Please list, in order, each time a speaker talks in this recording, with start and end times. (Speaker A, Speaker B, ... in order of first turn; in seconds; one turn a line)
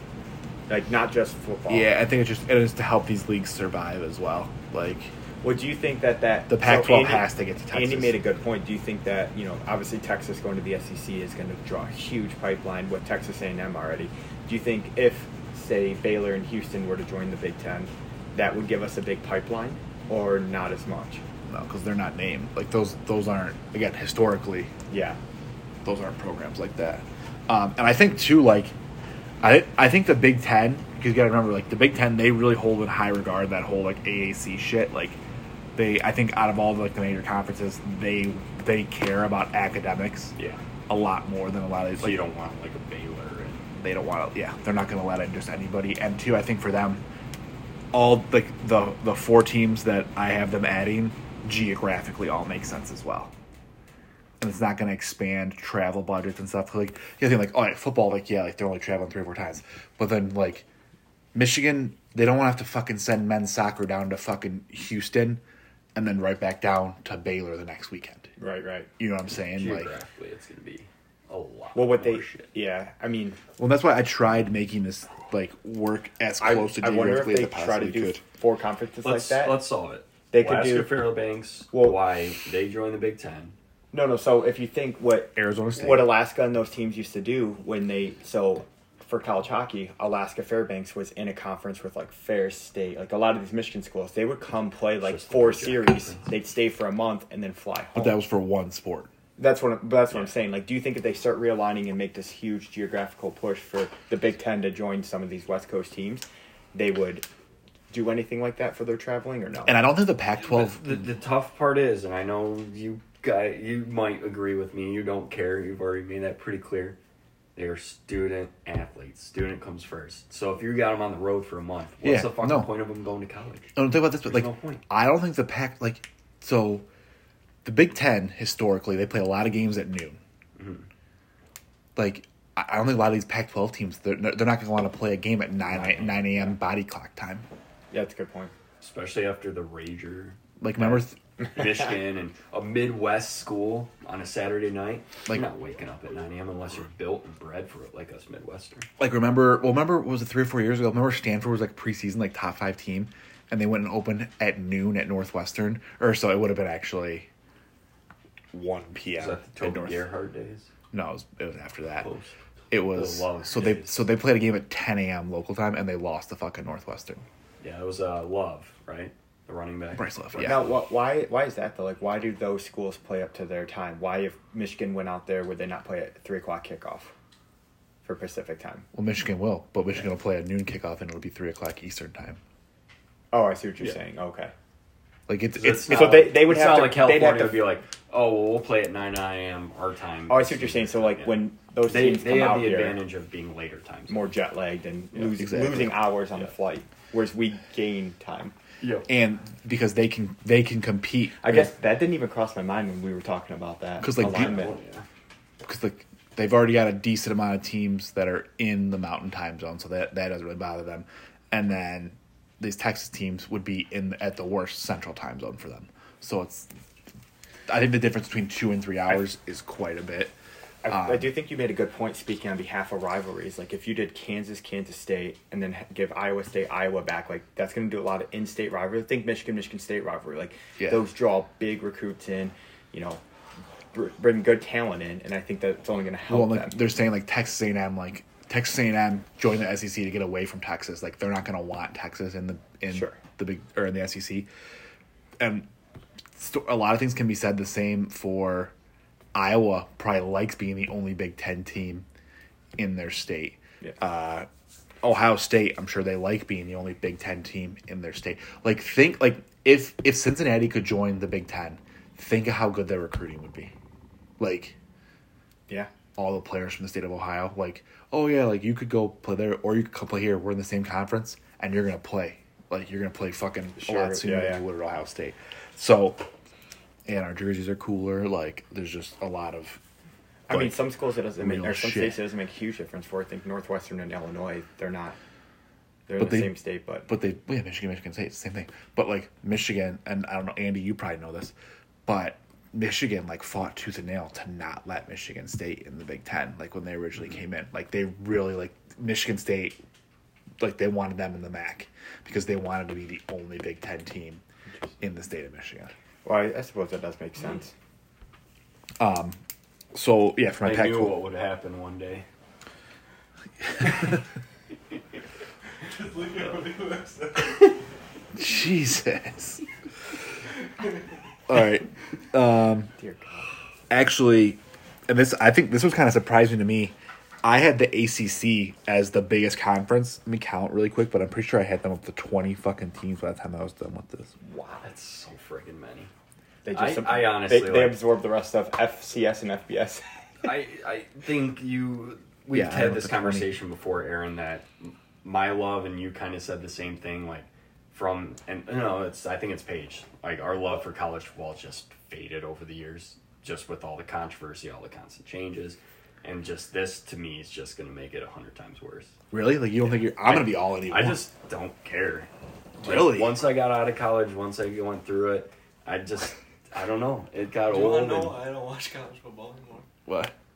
Speaker A: 0.7-1.9
Speaker B: 1.7-5.1
Speaker A: 5.4-21.2
Speaker B: 6.5-8.2
Speaker B: 21.5-24.7
Speaker A: 24.9-25.2
Speaker B: 25.9-28.8
Speaker B: 29.4-35.2
Speaker B: 35.8-40.4
Speaker C: 40.4-40.6
Speaker B: 40.9-42.2
Speaker C: 42.0-43.7
Speaker B: 43.8-47.0
Speaker B: 47.9-53.3
Speaker B: 54.4-60.6
Speaker B: 61.3-65.4
Speaker B: 66.0-68.3
Speaker A: 68.4-68.9
Speaker B: 69.0-69.9
Speaker C: 69.5-72.5
Speaker A: 71.8-73.4
Speaker B: 73.6-78.2
Speaker A: 76.4-79.6
Speaker C: 79.0-83.5
Speaker A: 80.3-81.1
Speaker A: 81.7-82.0
Speaker A: 83.9-98.2
Speaker B: 85.4-86.2
Speaker C: 95.0-96.3
Speaker B: 98.0-99.1
Speaker A: 99.4-107.2
Speaker A: 107.9-109.8
Speaker B: 109.7-111.1
Speaker C: 110.4-117.0
Speaker C: 117.6-124.8
Speaker B: 122.0-122.7
Speaker B: 123.8-126.9
Speaker B: 127.6-130.2
Speaker C: 130.6-130.9
Speaker B: 132.0-137.5
Speaker C: 135.7-136.4
Speaker A: 137.9-138.5
Speaker C: 138.8-148.9
Speaker B: 140.6-141.2
Speaker B: 149.0-157.3
Speaker B: 158.5-160.0
Speaker C: 159.2-160.7
Speaker B: 160.9-162.1
Speaker C: 162.0-164.1
Speaker B: 162.7-167.2
Speaker C: 167.6-170.6
Speaker B: 170.0-170.7
Speaker A: 170.4-177.1
Speaker A: 178.0-178.9
Speaker B: 178.9-182.4
Speaker A: 183.3-184.5
Speaker B: 185.3-186.3
Speaker C: 185.6-194.3
Speaker A: 185.8-187.7
Speaker A: 190.3-193.0
Speaker A: 194.1-198.5
Speaker B: 195.3-196.0
Speaker C: 198.8-199.1
Speaker B: 199.1-201.7
Speaker A: 201.4-204.8
Speaker B: 204.0-204.7
Speaker C: 204.2-205.1
Speaker B: 205.6-216.7
Speaker B: 217.7-220.3
Speaker A: 220.8-233.2
Speaker B: 220.9-221.3
Speaker B: 230.8-231.0
Speaker A: 233.9-236.8
Speaker B: 236.3-244.5
Speaker A: 242.9-243.2
Speaker B: 245.4-245.7
Speaker B: 246.4-248.7
Speaker B: 249.3-252.1
Speaker B: 252.8-254.5
Speaker B: 255.0-263.7
Speaker B: 264.4-264.8
Speaker B: 266.2-276.3
Speaker A: 273.8-274.6
Speaker B: 277.1-279.8
Speaker A: 280.5-285.2
Speaker B: 280.5-280.8
Speaker B: 281.4-282.2
Speaker A: 286.1-287.1
Speaker B: 286.2-286.5
Speaker B: 287.1-291.5
Speaker B: 292.1-299.8
Speaker B: 300.6-304.4
Speaker B: 305.0-305.9
Speaker A: 306.2-307.7
Speaker B: 309.0-309.4
Speaker B: 309.9-311.2
Speaker C: 310.6-312.3
Speaker D: 315.8-317.8
Speaker B: 318.4-319.6
Speaker B: 321.5-322.9
Speaker A: 323.0-323.5
Speaker B: 323.9-334.3
Speaker A: 334.4-334.9
Speaker C: 334.8-336.1
Speaker A: 336.6-340.1
Speaker C: 336.7-338.0
Speaker C: 340.4-359.1
Speaker B: 342.5-343.5
Speaker B: 359.3-361.2
Speaker C: 360.0-362.3
Speaker B: 362.8-363.4
Speaker C: 362.8-368.4
Speaker D: 367.7-369.9
Speaker B: 370.1-370.3